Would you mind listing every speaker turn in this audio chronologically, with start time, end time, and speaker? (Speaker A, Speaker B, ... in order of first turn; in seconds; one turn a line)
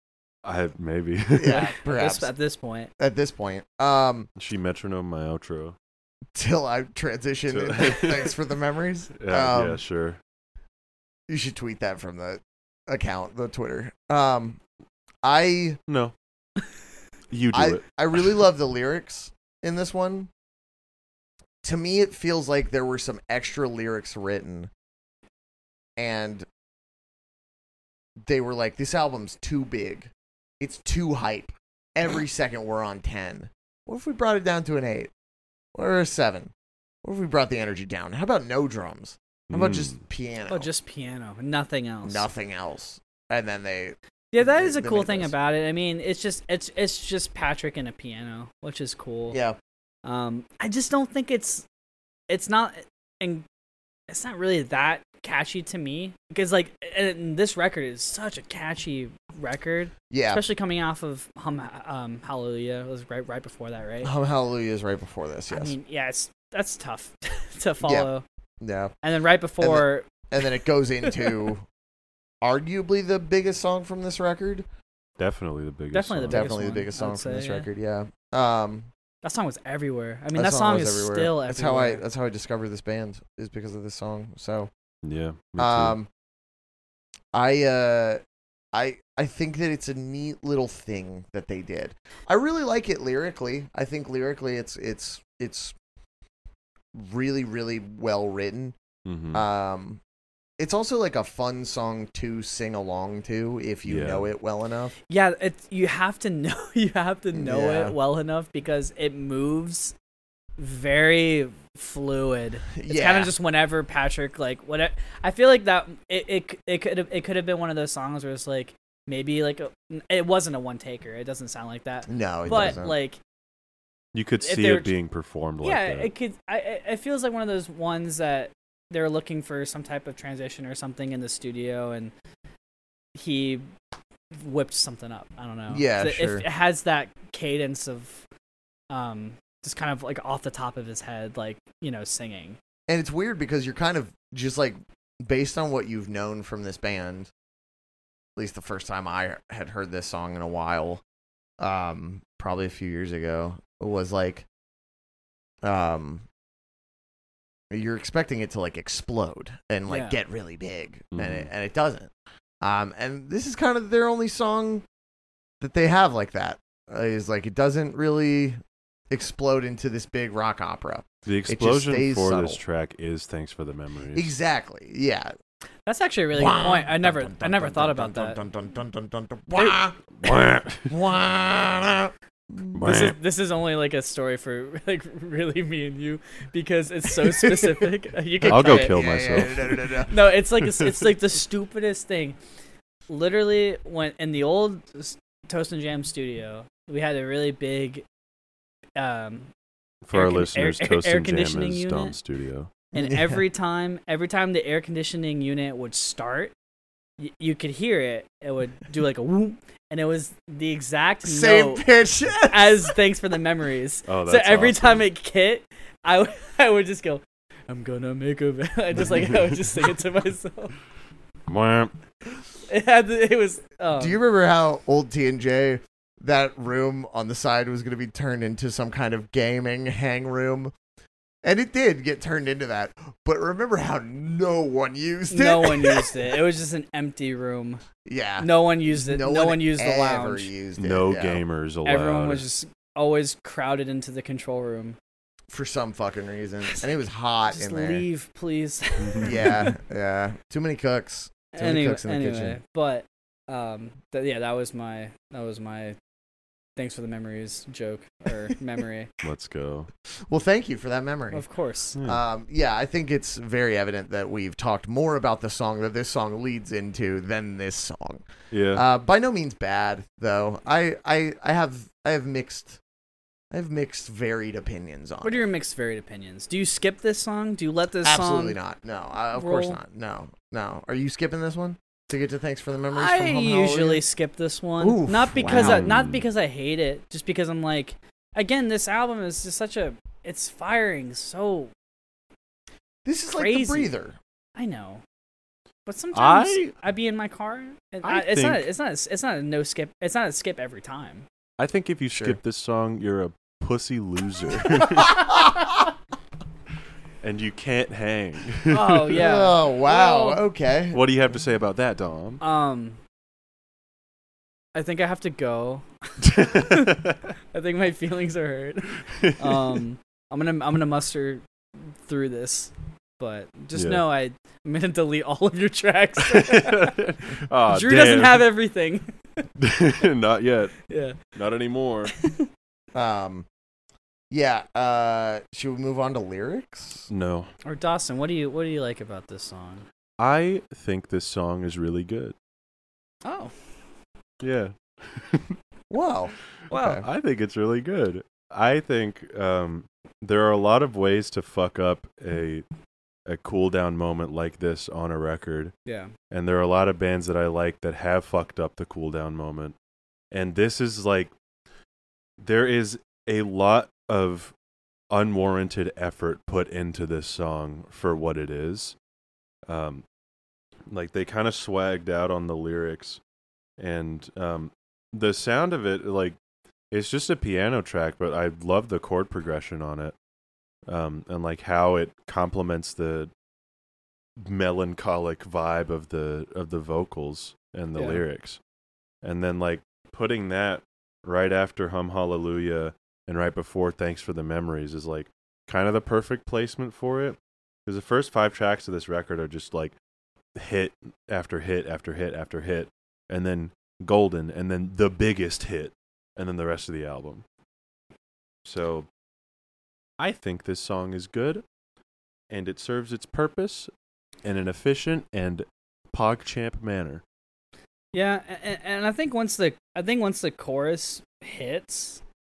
Speaker A: 0.4-1.6
Speaker B: 1.3-2.3
Speaker C: 1.5-2.9
Speaker B: 3.0-4.3
Speaker A: 4.4-5.8
Speaker B: 6.3-9.8
Speaker A: 7.5-8.3
Speaker A: 9.2-10.2
Speaker B: 11.3-14.6
Speaker B: 15.2-15.8
Speaker A: 15.9-16.1
Speaker A: 17.3-18.2
Speaker B: 17.5-20.3
Speaker B: 21.6-24.7
Speaker B: 26.0-26.4
Speaker B: 28.2-35.1
Speaker B: 35.7-36.5
Speaker B: 37.0-40.7
Speaker A: 39.5-40.0
Speaker C: 40.5-42.3
Speaker B: 42.0-45.3
Speaker C: 44.3-49.4
Speaker B: 49.3-49.6
Speaker C: 50.0-51.6
Speaker C: 52.3-53.4
Speaker C: 54.1-64.1
Speaker B: 60.1-60.4
Speaker B: 64.0-65.8
Speaker C: 65.5-68.2
Speaker B: 67.8-68.1
Speaker B: 68.6-68.9
Speaker C: 69.0-70.1
Speaker B: 69.6-71.7
Speaker C: 71.0-71.5
Speaker B: 72.4-74.6
Speaker A: 75.2-76.5
Speaker C: 75.9-77.7
Speaker B: 76.3-78.9
Speaker C: 79.2-82.0
Speaker B: 80.3-84.7
Speaker A: 85.0-86.0
Speaker B: 85.6-86.1
Speaker B: 87.3-88.2
Speaker B: 88.7-95.8
Speaker B: 96.9-98.8
Speaker A: 99.0-99.4
Speaker B: 99.3-100.0
Speaker B: 100.6-104.9
Speaker A: 103.8-104.3
Speaker C: 105.1-109.9
Speaker B: 107.3-107.9
Speaker C: 110.6-123.2
Speaker B: 112.8-113.3
Speaker B: 122.1-122.9
Speaker A: 124.1-126.1
Speaker C: 124.4-124.9
Speaker C: 125.6-132.1
Speaker C: 133.1-133.6
Speaker C: 134.3-138.2
Speaker B: 135.7-136.4
Speaker C: 138.9-142.6
Speaker B: 142.9-147.3
Speaker B: 148.3-151.0
Speaker B: 151.6-154.4
Speaker B: 155.6-156.2
Speaker B: 157.7-162.1
Speaker C: 159.9-160.2
Speaker A: 161.1-161.5
Speaker B: 162.6-164.8
Speaker B: 165.6-168.6
Speaker B: 169.1-172.6
Speaker A: 171.2-174.3
Speaker B: 174.1-175.3
Speaker C: 175.8-178.4
Speaker B: 176.3-180.3
Speaker A: 180.1-180.9
Speaker B: 180.9-182.9
Speaker A: 182.7-183.2
Speaker C: 182.8-189.4
Speaker B: 187.2-187.8
Speaker B: 188.4-190.1
Speaker A: 188.4-190.0
Speaker C: 190.1-192.4
Speaker A: 190.7-191.0
Speaker C: 193.1-198.0
Speaker C: 199.0-199.5
Speaker A: 200.0-202.7
Speaker C: 200.1-202.1
Speaker C: 202.9-206.5
Speaker B: 202.9-203.4
Speaker C: 207.2-211.8
Speaker B: 211.2-212.9
Speaker C: 212.5-220.7
Speaker A: 214.1-215.1
Speaker A: 219.0-219.6
Speaker A: 221.5-221.9
Speaker C: 222.7-224.2
Speaker B: 223.9-230.7
Speaker B: 231.4-236.1
Speaker C: 235.3-237.8
Speaker B: 238.0-241.4
Speaker C: 238.4-240.5
Speaker A: 240.8-242.4
Speaker C: 241.8-245.0
Speaker B: 245.5-248.0
Speaker C: 247.5-249.7
Speaker A: 249.0-249.3
Speaker B: 249.2-252.6
Speaker C: 251.5-256.0
Speaker C: 256.8-259.1
Speaker A: 259.2-259.9
Speaker B: 260.3-261.4
Speaker C: 261.3-262.0
Speaker B: 262.0-272.8
Speaker A: 268.5-268.8
Speaker B: 273.5-275.4
Speaker C: 275.2-278.6
Speaker B: 278.0-284.0
Speaker C: 279.3-279.8
Speaker C: 282.9-291.7
Speaker B: 284.8-285.9
Speaker A: 285.5-286.2
Speaker B: 293.0-294.2
Speaker C: 293.3-293.9
Speaker C: 294.6-295.0
Speaker C: 295.9-301.2
Speaker A: 296.1-296.7
Speaker A: 298.0-298.6
Speaker A: 301.6-305.5
Speaker B: 302.1-302.4
Speaker B: 304.8-305.8
Speaker A: 307.2-309.2
Speaker C: 308.7-310.4
Speaker B: 309.1-311.0
Speaker A: 310.9-312.4
Speaker C: 312.4-313.0
Speaker C: 314.7-321.4
Speaker A: 316.2-317.2
Speaker A: 319.1-319.8
Speaker C: 322.0-326.9
Speaker A: 323.7-324.0
Speaker A: 326.2-328.4
Speaker C: 327.7-329.1
Speaker A: 329.6-332.1
Speaker C: 330.9-331.2
Speaker C: 332.2-332.5
Speaker B: 332.9-333.5
Speaker B: 334.3-337.1
Speaker A: 337.1-337.5
Speaker C: 337.6-339.9
Speaker A: 340.2-342.3
Speaker C: 343.2-343.5
Speaker A: 344.4-345.6
Speaker B: 345.9-347.0
Speaker C: 346.7-347.0
Speaker A: 347.0-352.6
Speaker A: 353.3-355.7
Speaker C: 355.9-356.1
Speaker A: 356.3-359.7
Speaker A: 360.3-361.3
Speaker A: 362.4-364.5
Speaker A: 365.1-368.9
Speaker A: 369.7-370.0
Speaker A: 370.9-373.2
Speaker A: 373.8-376.4
Speaker A: 376.9-380.1
Speaker A: 380.9-383.3
Speaker A: 384.4-388.6
Speaker A: 389.2-399.9
Speaker A: 400.6-407.4
Speaker A: 408.6-409.1
Speaker A: 410.2-411.6
Speaker A: 412.5-413.9
Speaker A: 414.4-417.2
Speaker C: 418.1-422.2